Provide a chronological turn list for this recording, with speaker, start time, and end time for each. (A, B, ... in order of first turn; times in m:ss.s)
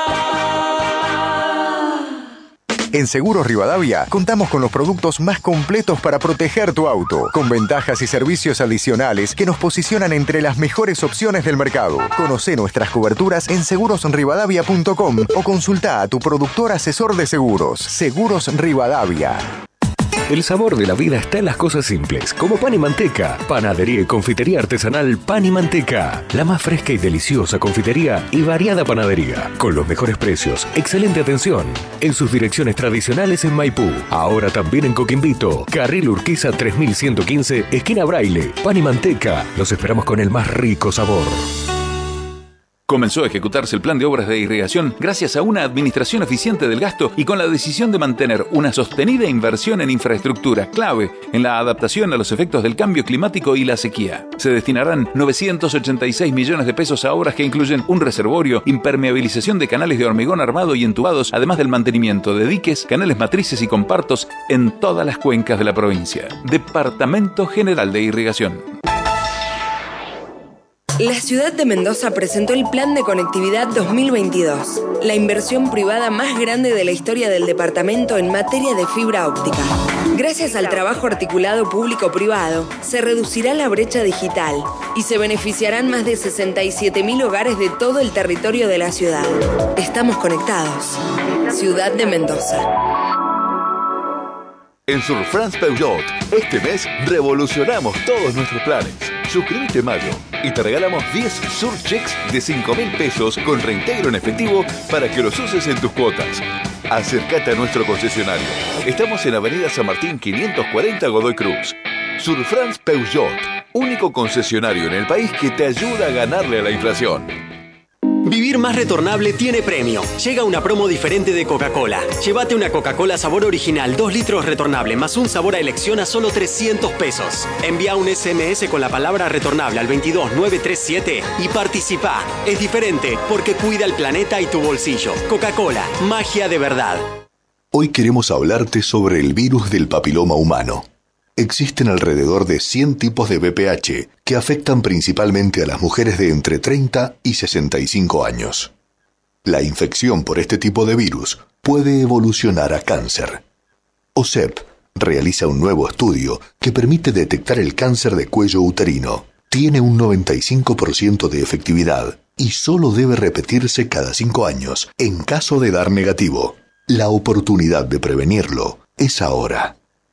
0:02.9-0:19.5 A
0:20.3-0:41.5 B
0:42.9-1:08.6 C
1:11.0-1:32.6 D
1:34.9-1:57.4 E
1:58.2-2:17.0 F
2:17.7-2:28.7 G
2:29.4-2:33.4 G
2:34.2-2:49.8 G